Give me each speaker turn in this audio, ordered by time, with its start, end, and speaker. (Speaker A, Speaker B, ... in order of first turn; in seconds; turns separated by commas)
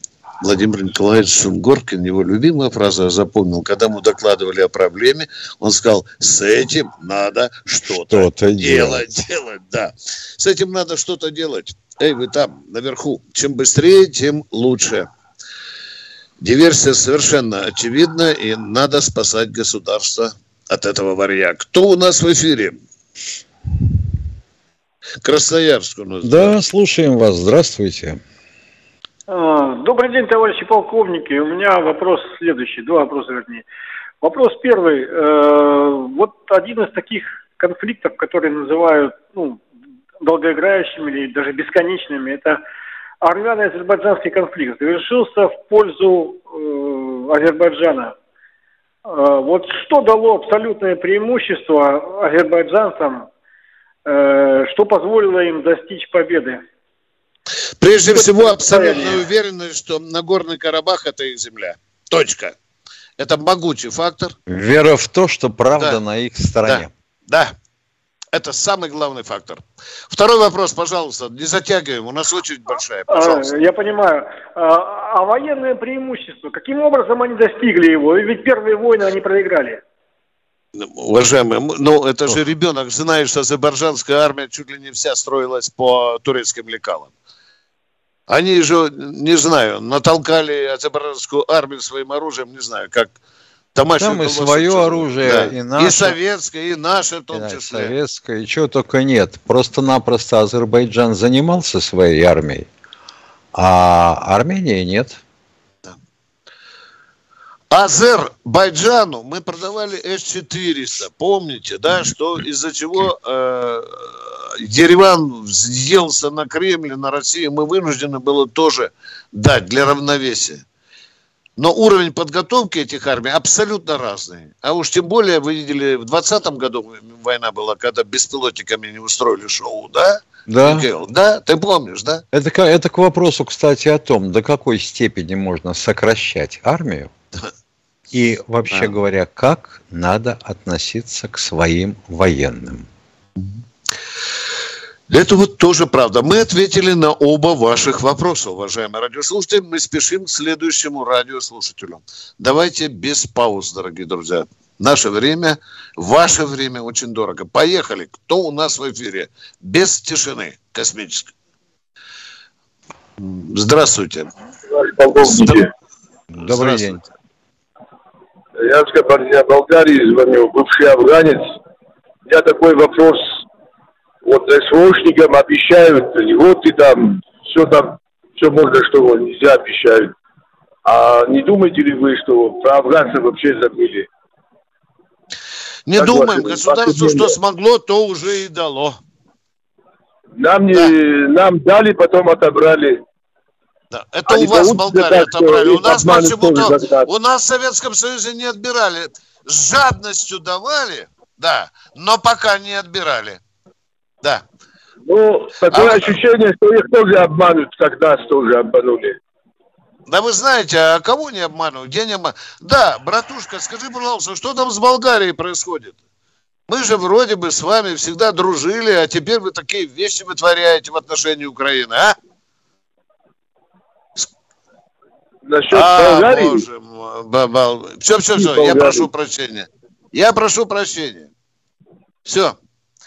Speaker A: 0.4-15.1, Speaker B: 7.8-9.0, Speaker A: 16.4-22.8, Speaker A: 25.2-26.6, Speaker B: 26.2-28.2, Speaker C: 29.3-33.6, Speaker C: 34.2-39.6, Speaker C: 40.2-42.6, Speaker C: 43.2-48.1, Speaker C: 49.0-53.3, Speaker C: 54.0-56.6, Speaker A: 57.8-62.5, Speaker C: 58.0-59.2, Speaker A: 63.2-64.3, Speaker B: 64.5-66.9, Speaker A: 66.6-67.5, Speaker A: 68.3-73.5, Speaker C: 73.1-79.8, Speaker A: 80.7-87.1, Speaker A: 88.3-93.2, Speaker A: 93.7-97.9, Speaker B: 94.0-96.2, Speaker B: 97.3-102.7, Speaker B: 103.5-105.2, Speaker A: 107.7-120.6, Speaker A: 121.6-132.2, Speaker B: 130.5-130.8, Speaker B: 132.3-137.1, Speaker B: 138.1-142.9, Speaker A: 138.7-138.9, Speaker A: 145.1-161.3, Speaker A: 163.2-164.3, Speaker D: 164.7-165.7, Speaker A: 165.2-165.7, Speaker B: 166.3-167.0, Speaker A: 166.4-167.0, Speaker D: 168.6-171.6, Speaker D: 172.3-173.4, Speaker D: 174.2-180.1, Speaker D: 180.8-184.1, Speaker A: 185.9-189.0, Speaker D: 186.0-187.3, Speaker D: 190.4-193.0, Speaker A: 193.9-203.4, Speaker D: 194.3-197.1, Speaker D: 205.1-209.2, Speaker A: 205.7-206.2, Speaker A: 210.1-215.9, Speaker A: 216.7-222.2, Speaker D: 225.5-226.6, Speaker A: 225.7-231.3, Speaker D: 228.3-229.1, Speaker A: 232.2-232.6